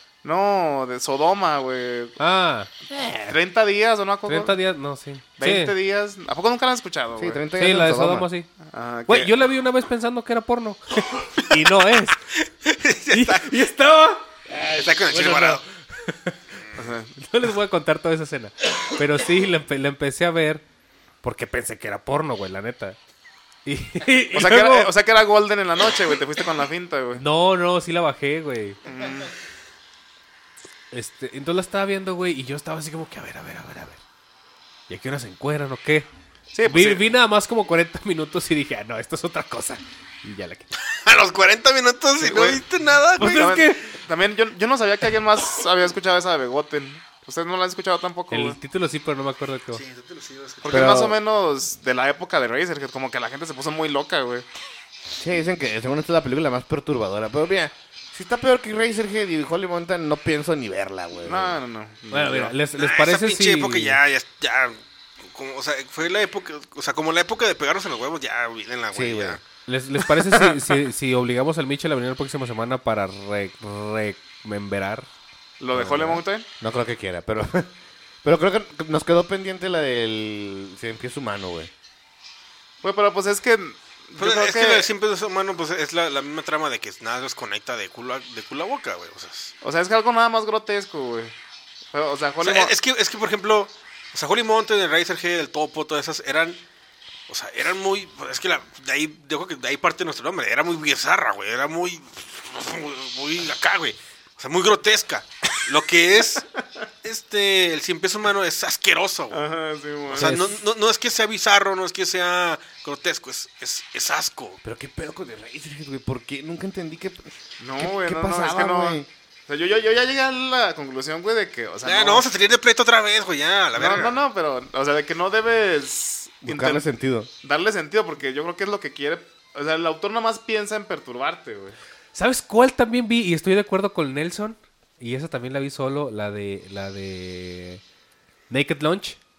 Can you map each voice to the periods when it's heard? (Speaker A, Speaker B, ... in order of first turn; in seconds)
Speaker A: 0.2-2.2, 3.3-4.6, 5.4-7.4, 8.7-9.3, 16.8-17.1, 24.3-27.2, 28.8-29.3, 36.5-37.1, 42.2-42.6, 43.2-48.6, 50.6-54.4, 61.2-62.5, 75.6-76.4, 82.8-84.9, 89.6-91.3, 91.9-92.7, 109.3-110.3, 117.6-122.2, 123.7-126.8, 127.4-131.8
Speaker B: 2.2-2.7, 4.2-5.7, 7.5-8.5, 9.1-12.2, 13.1-16.4, 17.1-20.6, 21.2-23.0, 23.6-24.9, 27.1-28.8, 30.9-34.0, 34.9-36.1, 36.6-40.7, 43.2-44.0, 48.3-49.8, 62.1-64.0, 69.7-75.1, 110.2-110.6, 132.1-137.8, 138.5-139.2
Speaker C: 2.9-3.4, 7.2-8.3, 50.7-51.2, 55.2-61.6, 68.9-69.4, 75.7-77.7, 78.2-81.7, 114.6-119.1, 126.4-127.3
Speaker D: 12.4-13.6, 14.7-15.6, 16.6-16.9, 40.8-43.5, 49.7-51.0, 62.7-69.4, 84.2-89.5, 92.4-96.6, 97.3-106.4, 107.0-109.4, 110.1-114.6, 121.8-124.2